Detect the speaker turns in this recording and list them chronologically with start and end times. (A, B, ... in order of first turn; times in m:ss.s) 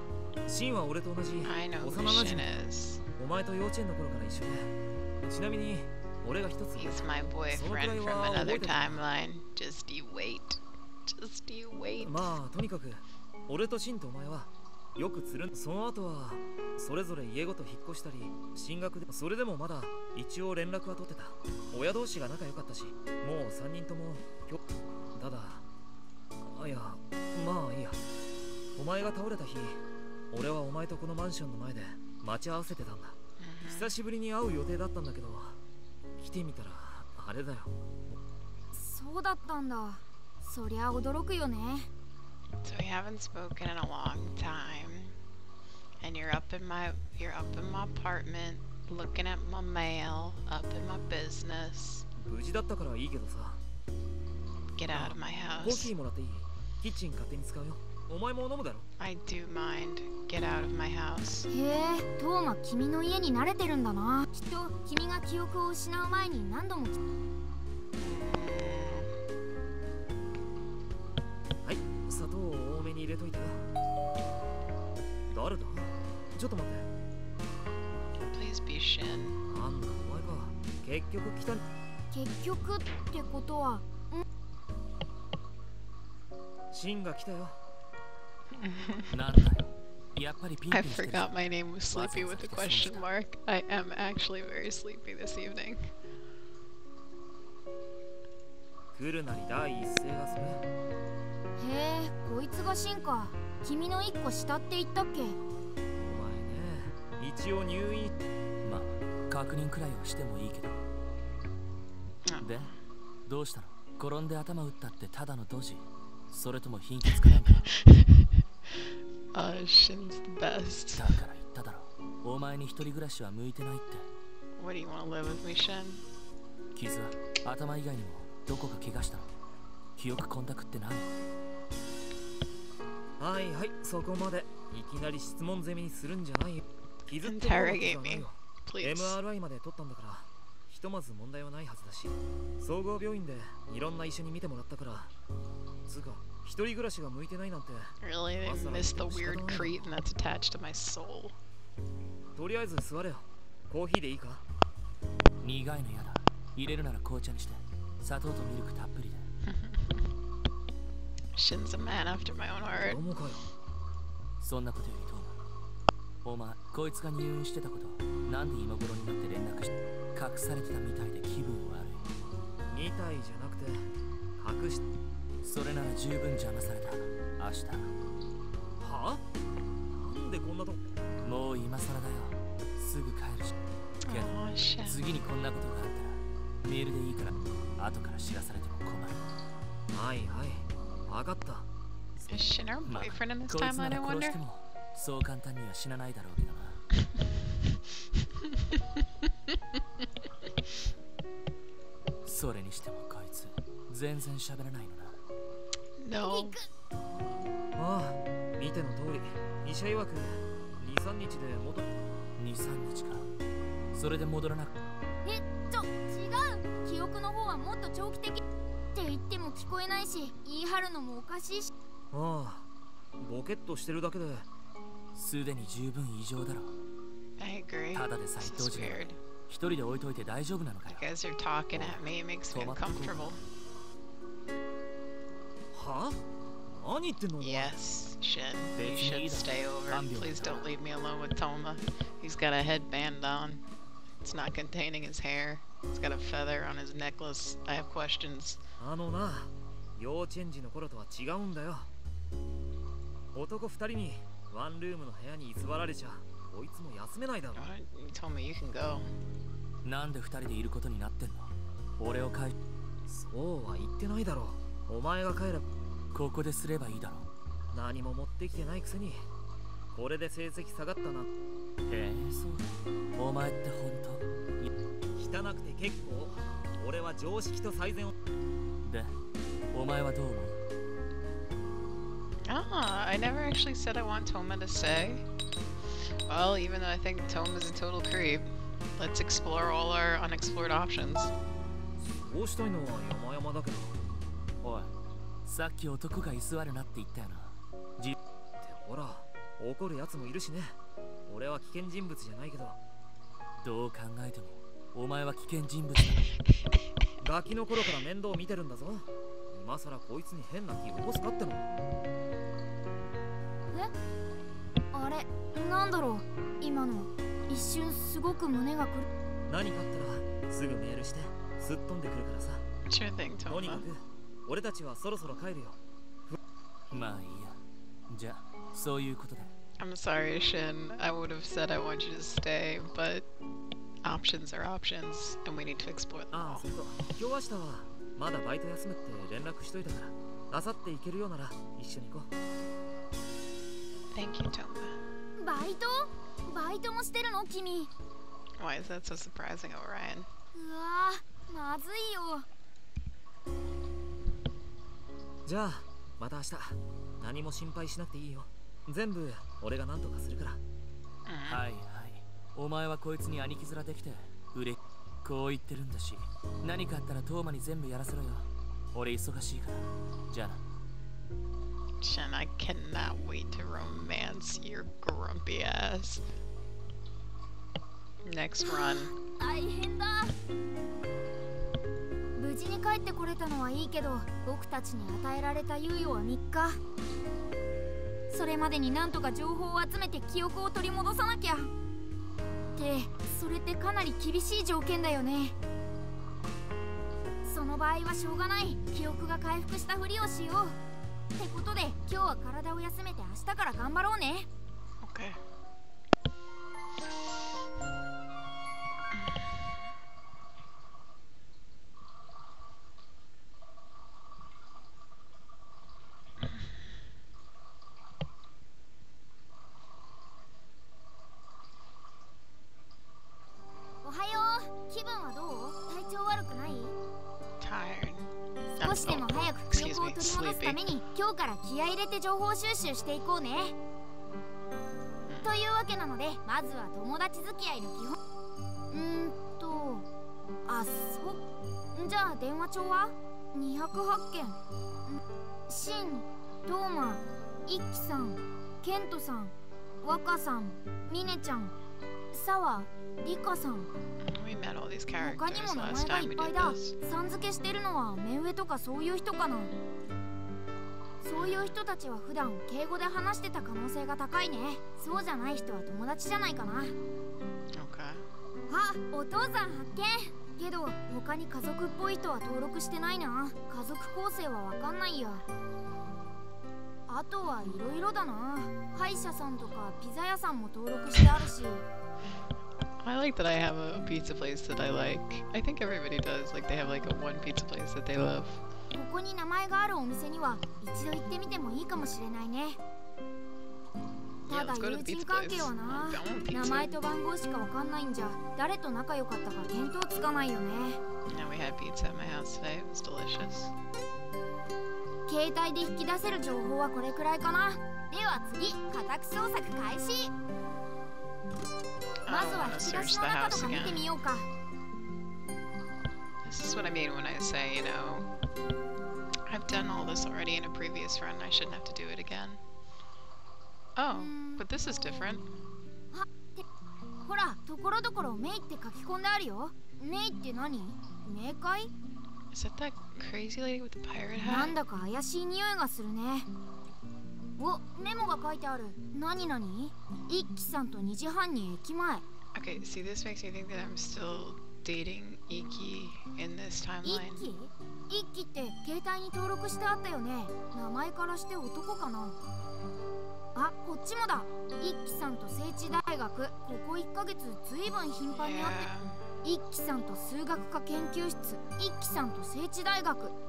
0:00.4-0:02.5 A
0:01.4-0:03.0 B
0:03.2-0:09.0 A
0:06.8-0:12.4 B
0:12.0-0:24.6 A
0:25.1-0:25.6 A
0:26.4-0:28.0 A
0:28.8-0:35.6 A
0:33.4-0:33.9 B
0:36.2-0:37.7 A
0:38.7-0:41.9 C
0:42.6-0:45.1 B
0:46.0-0:52.0 B
0:52.2-0:53.6 A
0:54.8-0:55.9 B
0:54.9-0:58.9 A
0:59.0-1:01.5 B
1:01.5-1:07.0 C
1:08.0-1:09.1 B
1:11.6-1:13.6 A
1:15.3-1:16.9 A
1:18.2-1:19.4 B
1:19.4-1:21.6 A
1:22.1-1:24.2 C
1:26.7-1:27.6 A
1:28.5-1:29.1 B
1:29.1-1:33.0 D
1:30.7-1:35.9 B
1:38.9-1:40.6 A
1:41.6-1:45.4 C
1:45.9-1:48.1 A
1:48.6-1:50.8 D
1:52.2-1:52.7 B
1:52.4-1:52.7 D
1:53.2-1:57.7 D
1:57.8-1:58.2 B
1:59.3-2:01.2 B
2:01.0-2:04.1 D
2:04.6-2:06.0 B
2:06.7-2:09.3 D
2:10.0-2:11.2 D
2:13.2-2:25.1 A
2:17.2-2:19.2 B
2:25.8-2:29.9 A
2:28.0-2:31.3 B
2:32.3-2:34.4 A
2:35.4-2:39.3 D
2:39.4-2:40.0 B
2:41.3-2:43.0 B
2:42.8-2:43.4 A
2:44.4-2:45.4 D
2:46.2-2:52.1 D
2:52.7-2:54.8 A
2:55.4-2:57.9 D
2:58.8-2:59.2 A
2:59.9-3:01.0 A
3:01.2-3:03.5 D
3:04.0-3:05.0 B
3:04.1-3:04.3 D
3:04.8-3:09.2 D
3:09.9-3:11.7 A
3:12.3-3:14.4 B
3:12.8-3:16.8 D
3:22.2-3:25.2 D
3:26.0-3:26.6 B
3:26.2-3:26.6 C
3:27.8-3:31.9 A
3:32.4-3:33.3 D
3:33.9-3:34.8 D
3:35.2-3:38.4 C
3:38.9-3:41.7 C
3:42.1-3:42.6 A
3:43.2-3:44.5 A
3:45.1-3:46.7 D
3:47.4-3:49.2 B
3:47.9-3:51.1 D
3:50.9-3:53.4 B
3:51.7-3:53.4 D
3:55.7-3:57.7 A
3:57.4-4:03.6 B
3:58.8-4:00.7 D
4:04.2-4:08.6 B
4:08.8-4:11.9 A
4:13.3-4:17.7 A
4:17.6-4:19.1 B
4:19.8-4:22.5 D
4:23.1-4:25.6 A
4:26.1-4:27.3 D
4:27.7-4:29.2 A
4:29.9-4:31.3 A
4:31.8-4:34.7 D
4:35.2-4:38.1 A
4:38.8-4:39.1 D
4:39.7-4:40.6 D
4:42.5-4:45.2 B
4:46.3-4:51.3 B
4:52.0-4:54.0 A
4:54.6-4:54.9 D
4:55.4-4:58.2 D
4:58.6-5:00.8 A
5:01.3-5:02.8 A
5:03.6-5:06.4 D
5:07.2-5:11.7 A
5:14.9-5:19.1 C
5:19.5-5:22.6 A
5:22.9-5:23.9 B
5:23.5-5:26.4 A
5:26.9-5:29.5 D
5:29.8-5:33.3 B
5:34.0-5:36.7 B
5:36.3-5:42.3 A
5:44.1-5:45.0 B
5:45.4-5:47.9 C
5:48.6-5:50.3 B
5:50.5-5:52.4 C
5:55.4-6:00.6 A
6:01.3-6:01.6 B
6:01.5-6:10.6 D
6:12.0-6:16.2 B
6:18.2-6:19.1 B
6:18.6-6:20.3 C
6:22.4-6:26.8 C
6:28.3-6:31.7 C
6:32.8-6:35.6 C
6:37.4-6:40.8 C
6:41.3-6:44.5 C
6:45.0-6:45.4 B
6:49.1-6:49.5 B
7:04.0-7:06.9 C
7:07.6-7:08.3 B
7:08.8-7:13.7 C
7:08.8-7:10.8 B
7:15.3-7:15.5 B
7:15.4-7:18.2 C
7:18.9-7:20.1 C
7:20.6-7:21.4 C
7:21.9-7:31.7 C
7:32.3-7:33.9 C
7:34.2-7:36.9 B
7:35.2-7:39.7 C
7:41.2-7:46.9 C
7:41.3-7:41.8 B
7:47.7-7:48.3 B
7:48.7-7:55.4 C
7:57.1-8:01.8 C
8:03.0-8:08.6 B
8:08.9-8:12.8 C
8:14.5-8:16.9 B
8:14.5-8:21.0 C
8:21.3-8:23.7 B
8:25.3-8:30.3 C
8:32.2-8:34.0 B
8:32.3-8:34.5 C
8:36.4-8:38.3 B
8:39.5-8:42.6 B
8:44.0-8:45.5 B
8:44.2-8:44.6 C
8:46.1-8:46.6 C
8:47.2-8:51.9 C
8:52.5-8:54.7 B
8:54.4-8:56.5 C
8:57.6-9:02.2 C
9:02.5-9:07.4 B
9:07.0-9:12.4 C
9:13.5-9:18.9 C
9:18.3-9:19.2 B
9:19.4-9:23.3 C